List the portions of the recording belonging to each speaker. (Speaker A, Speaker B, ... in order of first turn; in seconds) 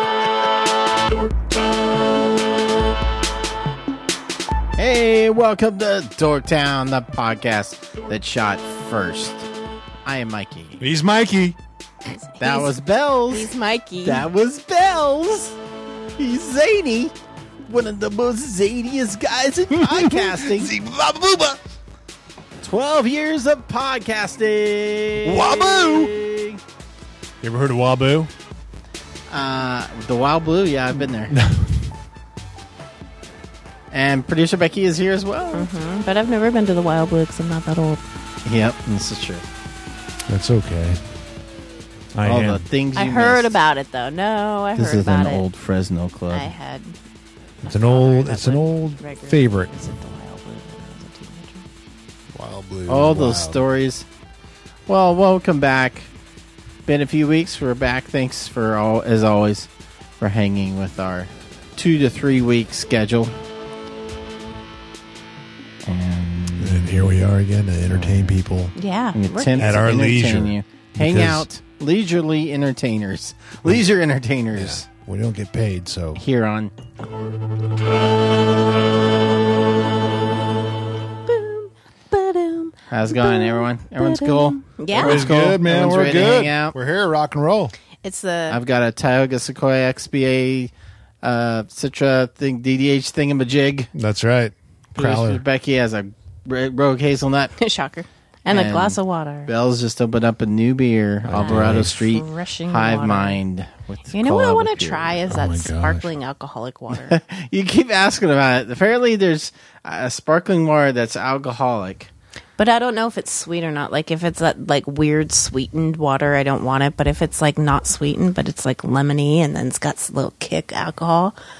Speaker A: 4.8-9.5, 10.0-10.8, 12.4-13.5, 14.0-15.6, 16.2-20.7, 22.6-26.6, 29.3-31.3, 33.9-35.7, 38.4-39.4, 42.2-43.5, 44.8-46.5, 52.9-54.0, 54.9-56.1, 56.9-59.7, 60.2-63.3, 65.8-66.9, 67.9-68.3, 69.1-74.8, 76.2-76.9, 82.9-86.8, 88.5-90.7, 91.2-93.9, 95.0-97.5, 98.5-105.2, 107.0-112.1
Speaker B: 10.8-11.6, 19.8-21.6, 25.2-26.1, 27.4-28.3, 31.3-31.9, 40.3-41.0, 42.1-42.6, 47.6-49.7, 52.3-53.6, 66.6-68.7, 69.5-71.5, 74.5-76.2, 85.0-87.7, 93.9-95.4, 101.2-102.1, 105.3-106.1
Speaker C: 12.1-12.7, 13.3-14.2, 35.5-38.0, 42.9-45.5, 46.3-47.0, 47.6-51.6, 68.8-69.7, 81.3-85.3, 88.0-88.6, 97.6-99.5, 101.4-103.4, 104.1-107.2, 112.6-121.3